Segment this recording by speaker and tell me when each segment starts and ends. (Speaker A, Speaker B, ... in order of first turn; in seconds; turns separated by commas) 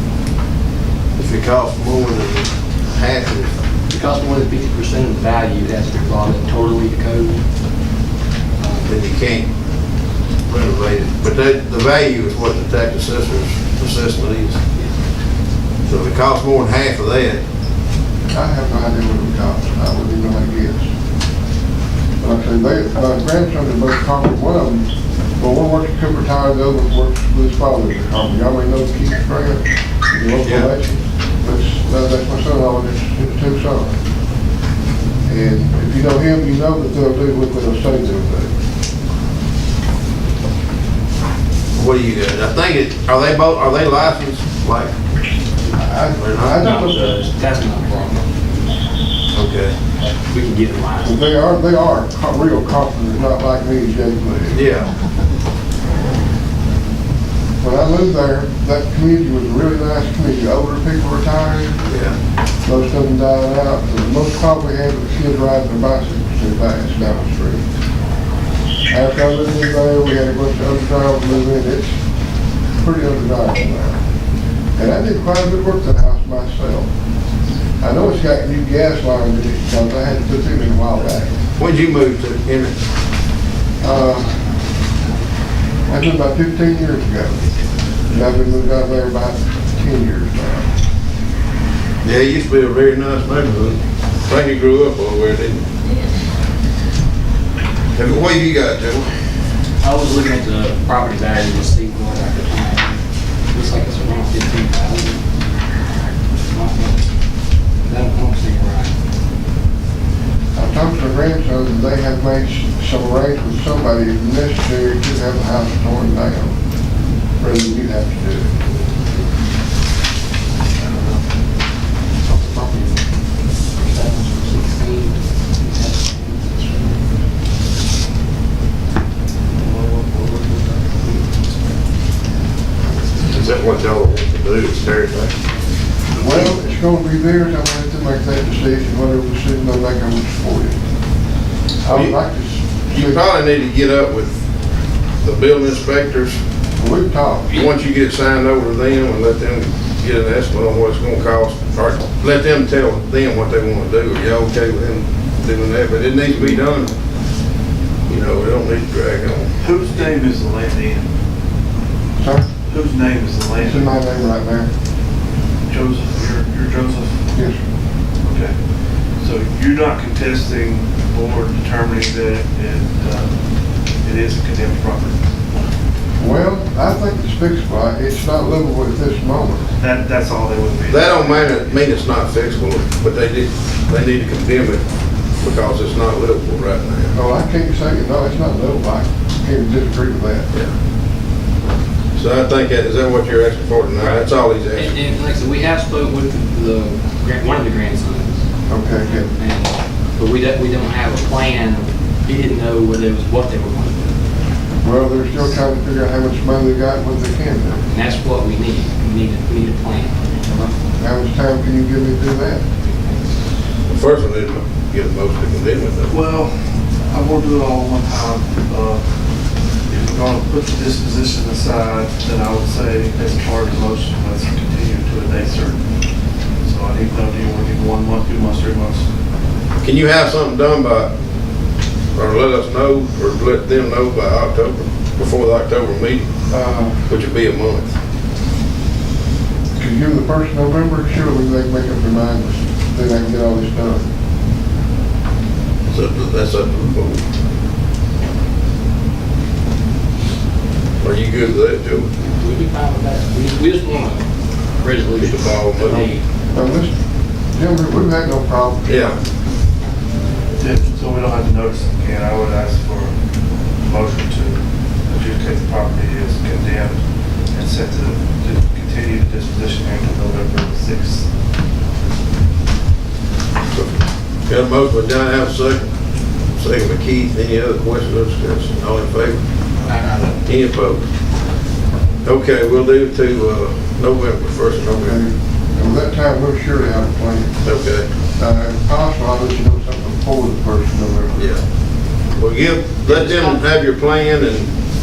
Speaker A: 1.1-3.5, Speaker B: 3.9-7.4, Speaker B: 8.6-8.9, Speaker A: 8.9-9.5, Speaker A: 10.5-14.6, Speaker A: 15.9-17.4, Speaker C: 18.3-20.9, Speaker C: 22.2-34.0, Speaker A: 30.4-30.7, Speaker C: 35.3-38.5, Speaker A: 41.7-45.0, Speaker C: 45.7-47.2, Speaker A: 46.1-46.6, Speaker B: 46.5-48.5, Speaker A: 49.3-49.7, Speaker B: 50.0-51.2, Speaker C: 51.0-54.6, Speaker A: 54.5-54.9, Speaker C: 57.6-61.8, Speaker A: 61.9-62.2, Speaker C: 62.6-67.6, Speaker C: 68.9-72.0, Speaker C: 72.8-74.0, Speaker C: 74.8-76.9, Speaker C: 77.8-81.4, Speaker A: 81.6-82.8, Speaker C: 83.8-84.3, Speaker B: 83.8-85.3, Speaker C: 85.9-87.4, Speaker C: 88.1-90.7, Speaker A: 92.0-95.7, Speaker A: 98.0-99.1, Speaker B: 99.8-103.0, Speaker B: 103.5-105.3, Speaker B: 106.0-107.0, Speaker B: 107.8-108.9, Speaker C: 110.6-116.5, Speaker C: 117.4-118.5, Speaker D: 120.8-121.2, Speaker B: 123.8-127.1, Speaker D: 129.6-130.9, Speaker A: 133.2-135.3, Speaker C: 136.2-140.8, Speaker C: 141.8-143.2, Speaker A: 141.9-142.2, Speaker A: 142.9-144.4, Speaker A: 145.2-146.4, Speaker C: 146.8-147.6, Speaker A: 147.5-156.9, Speaker A: 158.1-159.5, Speaker D: 159.6-161.0, Speaker C: 162.2-162.5, Speaker D: 162.7-164.0, Speaker C: 163.6-164.7, Speaker D: 165.7-167.2, Speaker C: 167.3-167.6, Speaker D: 168.2-168.6, Speaker D: 169.2-173.3, Speaker D: 174.0-175.2, Speaker C: 176.2-179.6, Speaker D: 179.8-181.7, Speaker A: 180.9-184.8, Speaker A: 185.4-187.2, Speaker C: 187.1-190.5, Speaker A: 192.2-194.9, Speaker B: 194.0-198.4, Speaker C: 198.7-199.3, Speaker B: 199.3-204.1, Speaker C: 204.8-207.9, Speaker B: 207.9-210.1, Speaker C: 210.5-212.6, Speaker B: 212.8-213.2, Speaker A: 213.9-216.2, Speaker D: 216.1-219.0, Speaker D: 219.9-225.8, Speaker D: 226.6-229.1, Speaker A: 229.8-231.1, Speaker A: 232.2-236.3, Speaker C: 236.5-237.0, Speaker A: 237.1-237.9, Speaker C: 239.8-244.1, Speaker A: 245.9-247.2, Speaker A: 251.0-252.1, Speaker B: 252.2-254.3, Speaker B: 254.8-256.2, Speaker A: 255.2-256.1, Speaker C: 256.5-256.9, Speaker C: 257.5-259.1, Speaker A: 258.9-259.2, Speaker D: 260.6-263.1, Speaker D: 263.8-267.0, Speaker D: 267.5-271.3, Speaker A: 273.7-275.9, Speaker A: 276.6-279.4, Speaker B: 279.9-280.4, Speaker A: 280.4-281.1, Speaker A: 282.2-285.1, Speaker C: 284.9-287.6, Speaker A: 287.6-288.1, Speaker C: 288.4-291.5, Speaker A: 291.4-291.6, Speaker A: 292.4-294.7, Speaker B: 293.1-293.7